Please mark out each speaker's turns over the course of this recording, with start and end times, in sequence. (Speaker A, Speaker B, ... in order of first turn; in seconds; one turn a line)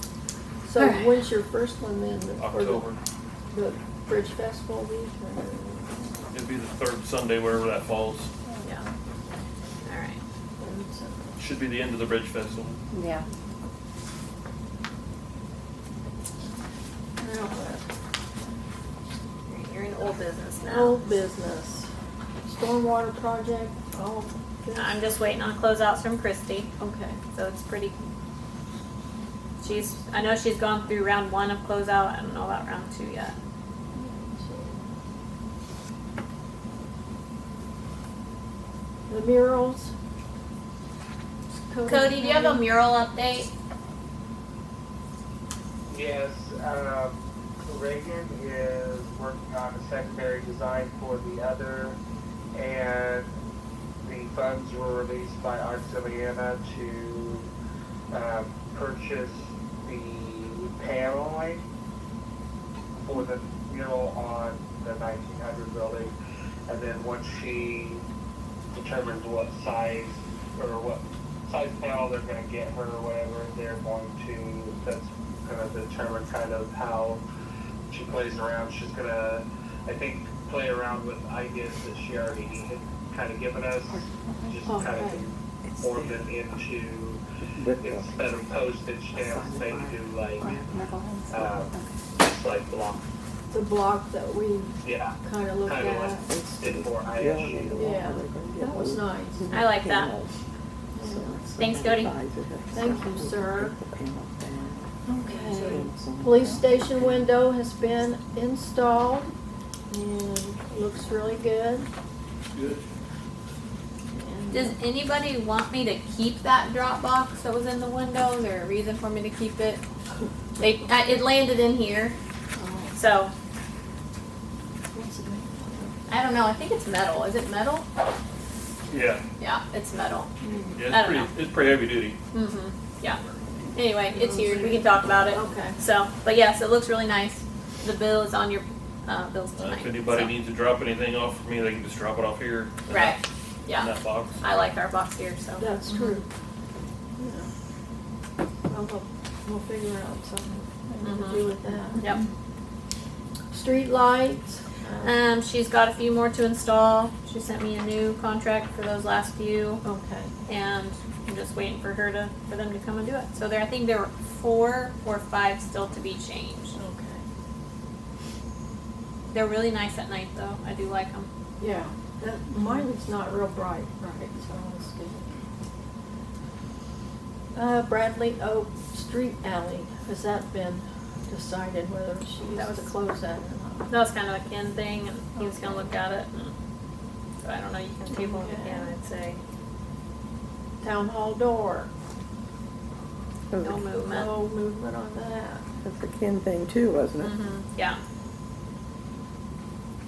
Speaker A: 0.7-2.9
Speaker B: 0.8-1.2
Speaker C: 2.4-3.0
Speaker A: 3.5-6.2
Speaker C: 6.3-8.3
Speaker A: 8.5-8.9
Speaker B: 9.8-10.2
Speaker A: 10.6-11.4
Speaker C: 11.4-12.8
Speaker D: 12.9-13.2
Speaker A: 17.2-17.9
Speaker B: 19.5-21.1
Speaker A: 20.7-21.9
Speaker A: 22.4-25.0
Speaker B: 24.8-26.7
Speaker A: 26.8-27.2
Speaker B: 27.3-28.0
Speaker B: 29.6-33.4
Speaker A: 33.9-34.9
Speaker A: 39.1-39.9
Speaker A: 41.5-42.6
Speaker B: 41.9-43.5
Speaker E: 45.9-52.0
Speaker E: 52.5-53.3
Speaker E: 54.0-57.5
Speaker E: 58.1-61.6
Speaker E: 63.0-66.1
Speaker E: 66.7-68.0
Speaker E: 68.7-77.2
Speaker E: 77.9-87.2
Speaker D: 83.9-84.6
Speaker A: 84.7-85.2
Speaker D: 85.6-86.3
Speaker D: 87.4-88.4
Speaker E: 87.8-90.6
Speaker D: 89.1-92.0
Speaker E: 91.3-93.0
Speaker A: 93.5-96.2
Speaker E: 94.8-95.2
Speaker E: 95.7-97.9
Speaker D: 96.2-100.3
Speaker A: 97.7-99.4
Speaker B: 99.5-100.1
Speaker A: 101.0-101.4
Speaker D: 101.0-107.2
Speaker B: 101.6-102.1
Speaker A: 102.7-103.8
Speaker A: 105.0-109.3
Speaker A: 109.9-111.9
Speaker C: 112.5-112.8
Speaker A: 114.1-114.8
Speaker B: 114.5-119.8
Speaker B: 120.6-122.1
Speaker A: 122.6-123.0
Speaker B: 122.9-123.3
Speaker A: 124.9-126.0
Speaker B: 126.1-127.9
Speaker C: 128.9-129.2
Speaker B: 129.4-130.3
Speaker A: 130.4-130.8
Speaker C: 130.8-132.2
Speaker B: 130.9-131.3
Speaker B: 132.3-133.2
Speaker B: 133.8-140.3
Speaker A: 134.1-135.8
Speaker C: 139.6-143.2
Speaker B: 142.9-146.2
Speaker C: 143.8-144.3
Speaker A: 145.6-146.3
Speaker A: 147.2-147.5
Speaker A: 148.7-152.1
Speaker B: 151.0-151.4
Speaker A: 153.5-155.2
Speaker B: 155.0-159.8
Speaker A: 159.8-160.3
Speaker B: 160.5-166.8
Speaker A: 166.7-167.2
Speaker B: 169.3-171.3
Speaker A: 171.6-175.4
Speaker A: 177.6-183.9
Speaker B: 182.5-182.9
Speaker B: 183.9-186.5
Speaker A: 185.4-185.9
Speaker B: 187.4-189.4
Speaker A: 188.1-188.9
Speaker A: 190.8-191.9
Speaker B: 193.6-194.3
Speaker A: 194.1-195.7
Speaker D: 195.8-197.5
Speaker B: 197.2-198.0